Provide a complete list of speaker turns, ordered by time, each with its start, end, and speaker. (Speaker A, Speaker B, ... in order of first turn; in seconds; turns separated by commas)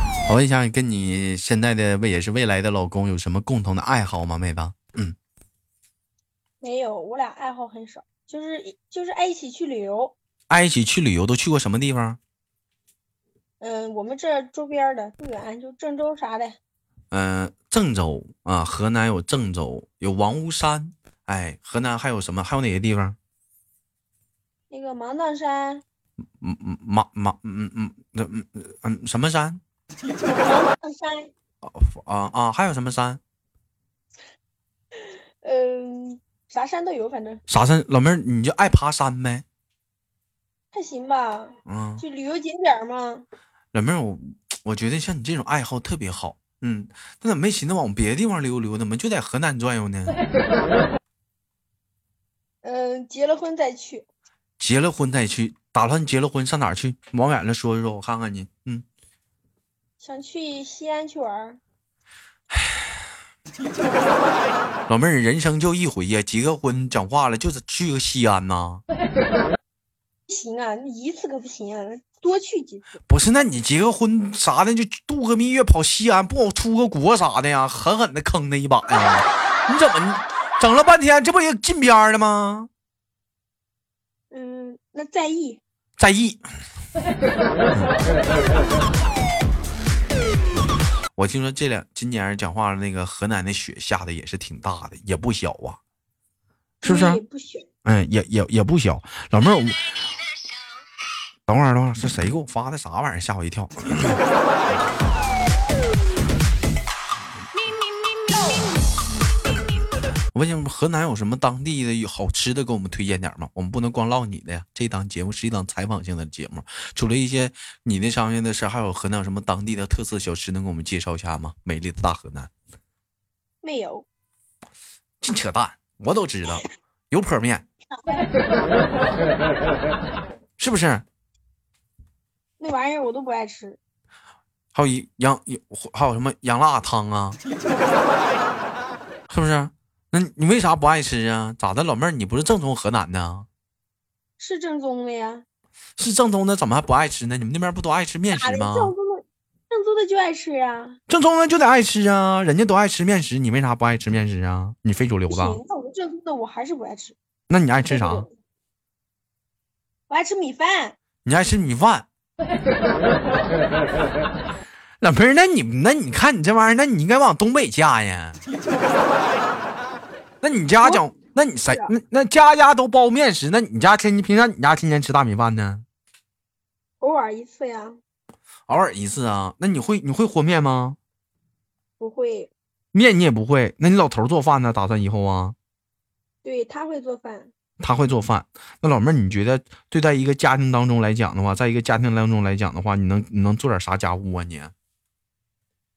Speaker A: 0.2-5.2, Speaker B: 6.6-10.1, Speaker A: 10.5-12.2, Speaker B: 13.6-16.6, Speaker A: 17.1-23.2, Speaker B: 24.7-25.8, Speaker A: 26.4-29.6, Speaker B: 30.4-31.3, Speaker A: 31.6-33.2, Speaker B: 34.9-37.4, Speaker A: 37.5-39.4, Speaker B: 40.7-43.2, Speaker A: 41.6-42.0, Speaker A: 43.7-50.2, Speaker B: 52.6-54.1, Speaker A: 54.6-58.8, Speaker B: 60.0-61.6, Speaker A: 62.5-62.9, Speaker A: 64.9-68.8, Speaker B: 70.3-72.9, Speaker A: 73.1-82.7, Speaker B: 84.3-85.6, Speaker A: 86.0-86.4, Speaker A: 91.1-95.8, Speaker B: 96.8-97.7, Speaker A: 96.8-97.2, Speaker A: 97.8-99.9, Speaker A: 101.5-104.2, Speaker A: 110.3-122.5, Speaker B: 123.6-124.0, Speaker A: 125.2-127.7, Speaker B: 127.9-128.2, Speaker A: 130.6-131.0, Speaker B: 132.6-133.8, Speaker A: 134.7-137.4, Speaker A: 139.3-143.5, Speaker B: 144.4-145.4, Speaker A: 146.0-148.9, Speaker B: 148.3-151.0, Speaker A: 151.1-155.6, Speaker B: 155.3-157.2, Speaker A: 157.5-158.2, Speaker B: 157.9-158.3, Speaker B: 160.1-161.0, Speaker A: 161.2-162.1, Speaker A: 165.0-168.4, Speaker A: 170.4-175.8, Speaker B: 177.0-178.0, Speaker A: 178.7-181.0, Speaker B: 182.0-182.5, Speaker A: 182.9-185.6, Speaker B: 186.4-187.5, Speaker A: 187.8-194.7